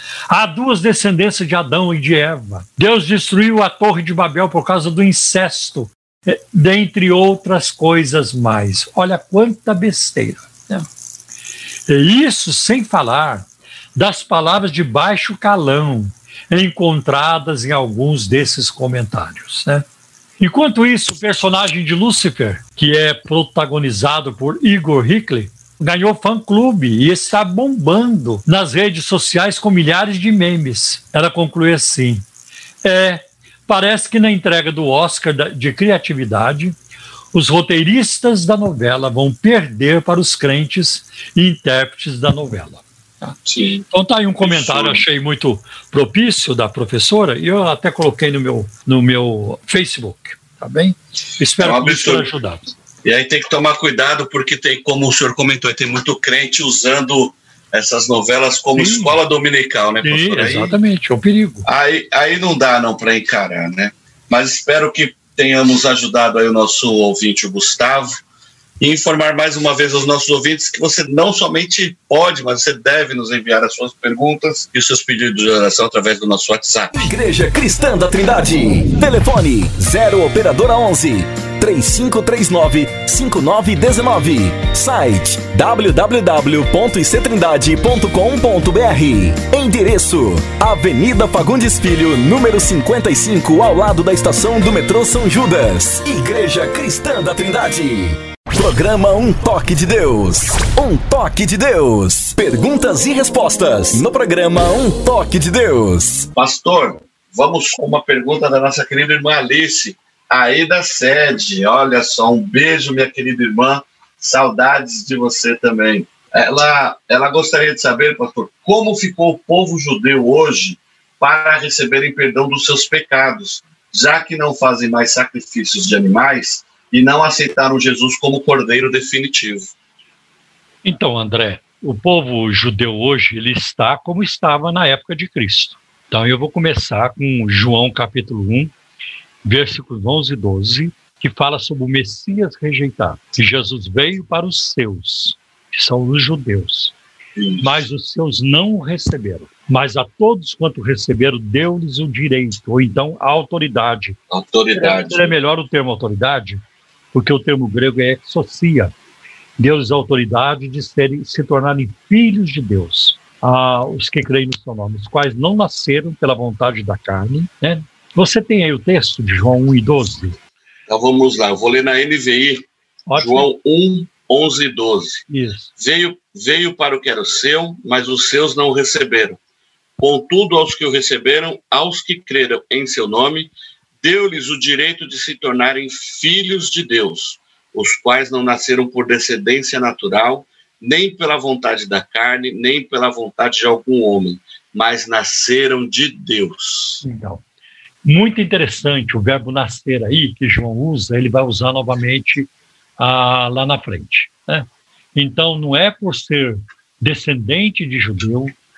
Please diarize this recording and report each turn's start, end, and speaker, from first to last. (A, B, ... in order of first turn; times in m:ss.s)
0:00.3-0:10.9 A
0:11.9-0:19.8 A
0:20.4-0:32.2 A
0:32.8-0:36.8 A
0:37.3-0:52.6 A
0:43.5-0:43.9 B
0:44.4-0:45.0 B
0:51.6-0:52.3 B
0:53.0-1:00.7 B
0:58.8-0:59.2 A
1:00.0-1:01.7 A
1:01.7-1:08.2 B
1:08.8-1:17.1 B
1:16.9-1:46.3 C
1:46.4-2:09.7 B
2:10.8-2:18.7 A
2:19.4-2:26.9 A
2:27.4-2:27.8 B
2:27.6-2:34.2 A
2:34.3-2:35.3 B
2:34.8-2:36.6 A
2:37.1-2:38.9 A
2:39.6-2:50.4 A
2:50.9-2:55.2 B
2:53.1-2:53.5 A
2:55.3-2:55.7 A
2:55.8-2:59.4 B
3:00.0-3:17.0 B
3:17.0-3:17.4 A
3:18.0-3:28.5 A